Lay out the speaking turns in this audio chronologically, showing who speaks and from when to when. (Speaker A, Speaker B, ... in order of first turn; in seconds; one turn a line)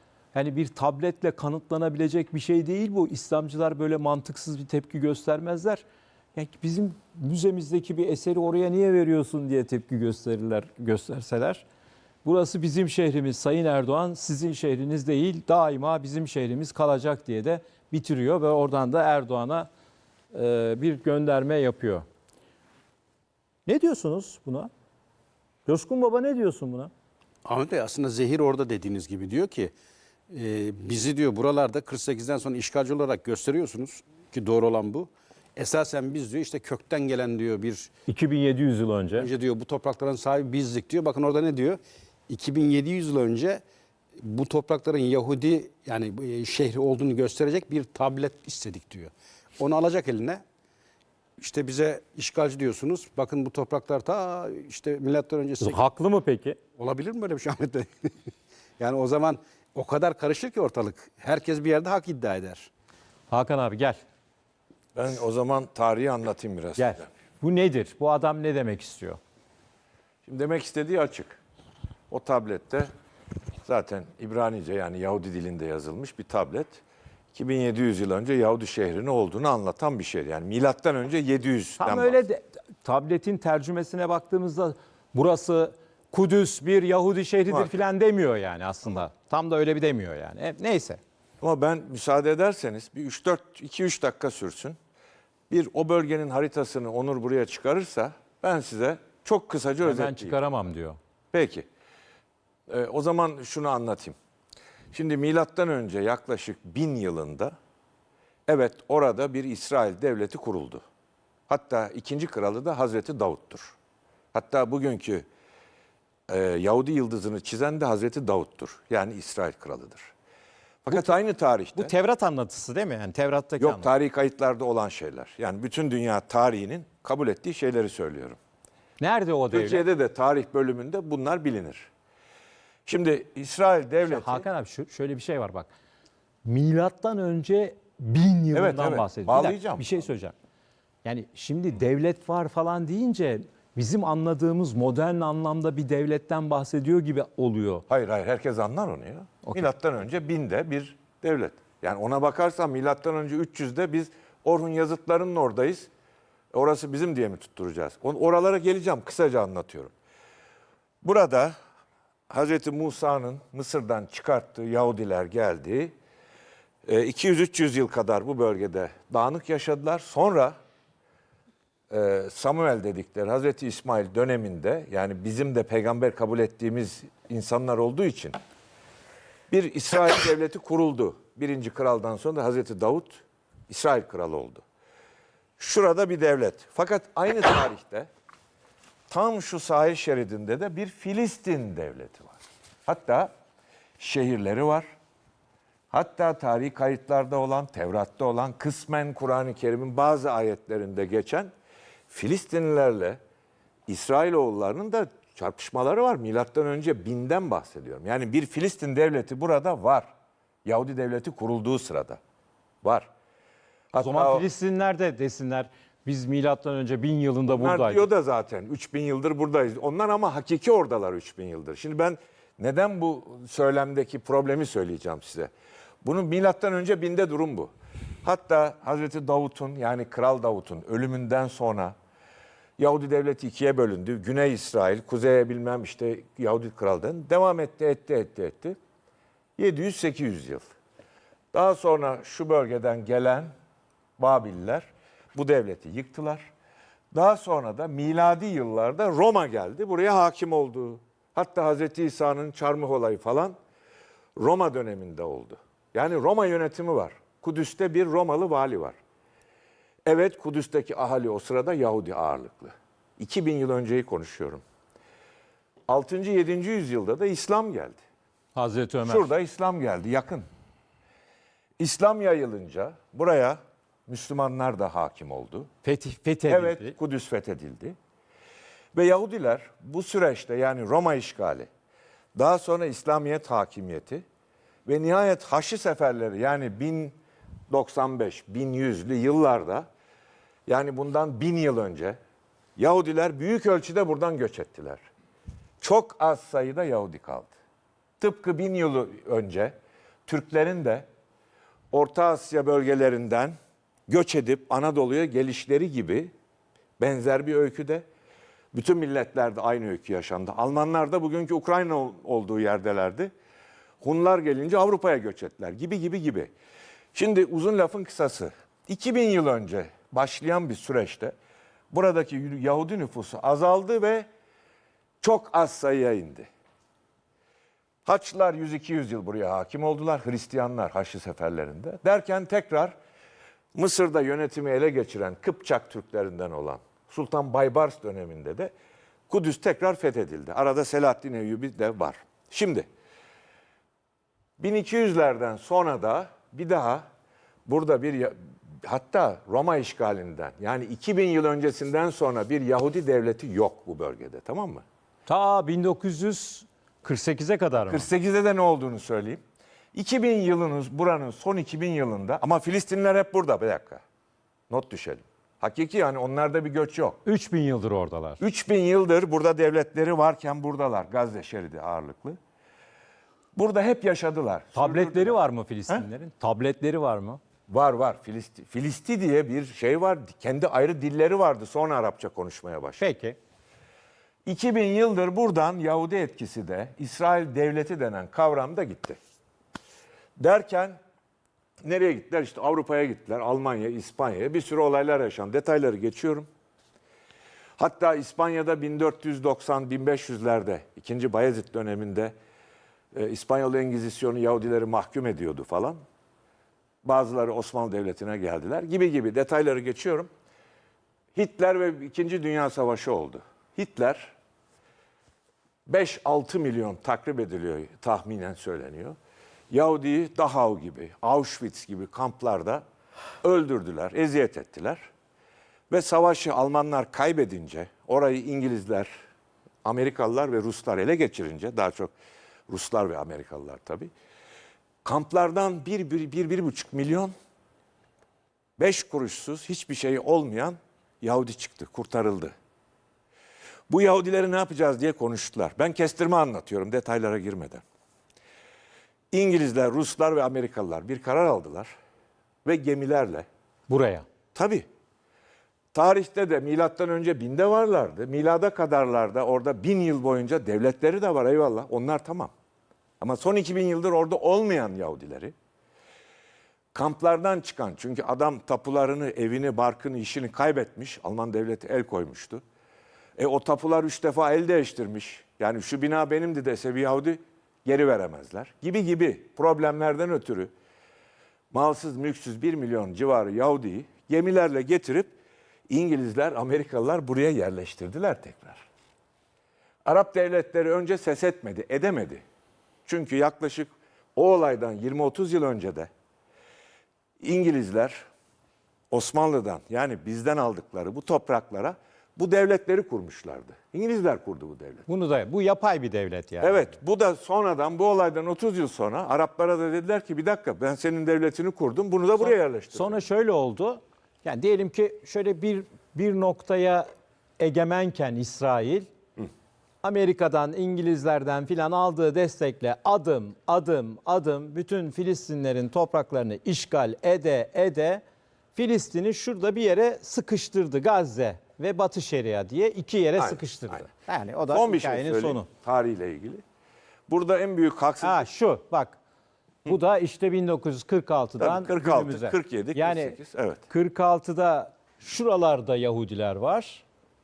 Speaker A: 0.3-5.8
Speaker A: 6.3-11.7
Speaker A: 12.2-19.7
Speaker A: 20.3-22.1
Speaker A: 23.7-24.7
Speaker A: 25.7-26.9
Speaker B: 27.4-29.7
Speaker B: 30.3-37.9
Speaker A: 38.1-39.3
Speaker B: 39.2-43.6
Speaker B: 44.2-50.4
Speaker B: 51.4-55.8
Speaker A: 55.6-56.6
Speaker B: 56.8-58.3
Speaker B: 58.8-62.7
Speaker A: 63.3-64.0
Speaker C: 65.0-67.1
Speaker A: 66.8-69.2
Speaker C: 70.2-71.4
Speaker C: 72.1-72.9
Speaker C: 73.7-76.8
Speaker C: 77.3-82.2
Speaker A: 81.8-91.0
Speaker C: 87.5-87.8
Speaker C: 91.4-94.8
Speaker C: 95.5-100.4
Speaker A: 99.8-101.0
Speaker C: 101.3-101.7
Speaker C: 102.7-104.2
Speaker C: 104.9-107.5
Speaker C: 108.5-110.8
Speaker C: 111.5-113.8
Speaker C: 114.3-115.2
Speaker C: 116.3-120.1
Speaker C: 120.8-121.9
Speaker A: 121.8-123.9
Speaker C: 123.6-128.4
Speaker A: 129.0-129.8
Speaker C: 129.5-131.9
Speaker C: 132.9-134.4
Speaker A: 134.1-135.7
Speaker A: 136.4-140.3
Speaker C: 138.5-140.0
Speaker A: 141.0-147.8
Speaker C: 147.9-155.9
Speaker C: 156.5-159.9
Speaker C: 161.0-161.6
Speaker C: 162.3-165.9
Speaker C: 166.8-170.6
Speaker C: 171.9-178.4
Speaker C: 179.5-184.6
Speaker C: 185.6-188.1
Speaker C: 189.1-193.3
Speaker C: 194.0-194.9
Speaker C: 195.9-201.5
Speaker C: 202.1-203.2
Speaker C: 203.9-210.1
Speaker C: 210.7-212.2
Speaker C: 212.8-213.1
Speaker C: 213.9-214.5
Speaker A: 214.0-218.1
Speaker C: 217.5-225.5
Speaker C: 226.0-227.7
Speaker C: 228.2-231.9
Speaker C: 232.8-238.8
Speaker C: 239.6-240.7
Speaker C: 241.5-243.5
Speaker C: 244.2-246.5
Speaker C: 247.1-253.6
Speaker C: 254.4-259.0
Speaker C: 260.1-264.6
Speaker C: 265.9-268.0
Speaker A: 268.6-269.3
Speaker C: 269.1-270.5
Speaker C: 271.8-275.7
Speaker A: 275.8-277.0
Speaker C: 276.5-278.0
Speaker C: 278.9-281.7
Speaker C: 282.4-284.2
Speaker C: 284.9-287.2
Speaker C: 287.7-289.9
Speaker C: 290.7-292.2
Speaker C: 292.8-295.0
Speaker C: 295.8-297.5
Speaker C: 298.2-299.8
Speaker C: 300.3-301.1
Speaker C: 301.9-303.6
Speaker C: 304.1-306.3
Speaker C: 307.0-308.0
Speaker C: 308.7-313.3
Speaker C: 314.0-316.5
Speaker C: 317.1-321.3
Speaker C: 321.9-324.3
Speaker C: 325.2-326.5
Speaker C: 328.1-332.9
Speaker C: 333.8-338.7
Speaker C: 339.3-342.9
Speaker C: 344.6-347.1
Speaker C: 347.7-354.8
Speaker A: 355.3-358.1
Speaker C: 357.9-359.4
Speaker C: 359.9-364.0
Speaker C: 364.7-367.2
Speaker A: 367.2-368.4
Speaker C: 368.4-372.4
Speaker C: 373.6-375.4
Speaker A: 374.8-377.4
Speaker C: 377.7-383.0
Speaker A: 383.0-383.4
Speaker C: 384.5-389.2
Speaker C: 390.4-391.0
Speaker C: 391.8-396.5
Speaker C: 397.8-402.3
Speaker C: 403.1-406.0
Speaker C: 407.0-410.3
Speaker C: 411.4-414.4
Speaker C: 415.9-419.2
Speaker C: 419.7-422.8
Speaker C: 423.4-425.1
Speaker C: 425.9-429.1
Speaker C: 429.9-432.1
Speaker C: 432.7-434.1
Speaker C: 435.1-437.3
Speaker C: 438.8-442.5
Speaker C: 443.9-447.8
Speaker C: 449.3-451.9
Speaker C: 452.6-453.5
Speaker A: 453.9-454.3
Speaker C: 454.6-454.9
Speaker C: 455.9-462.5
Speaker C: 463.2-465.5
Speaker C: 466.9-472.6
Speaker C: 473.4-480.7
Speaker C: 481.7-485.4
Speaker C: 485.9-488.9
Speaker C: 490.1-492.4
Speaker C: 493.1-496.1
Speaker C: 497.4-498.3
Speaker C: 499.1-505.1
Speaker A: 505.1-506.9
Speaker C: 506.6-513.2
Speaker A: 512.4-517.1
Speaker A: 517.6-519.1
Speaker A: 520.0-528.2
Speaker A: 528.8-535.7
Speaker C: 533.4-534.1
Speaker C: 534.7-536.6
Speaker C: 537.3-538.5
Speaker A: 538.2-539.2
Speaker A: 539.9-543.4
Speaker C: 541.6-543.8
Speaker A: 543.9-547.0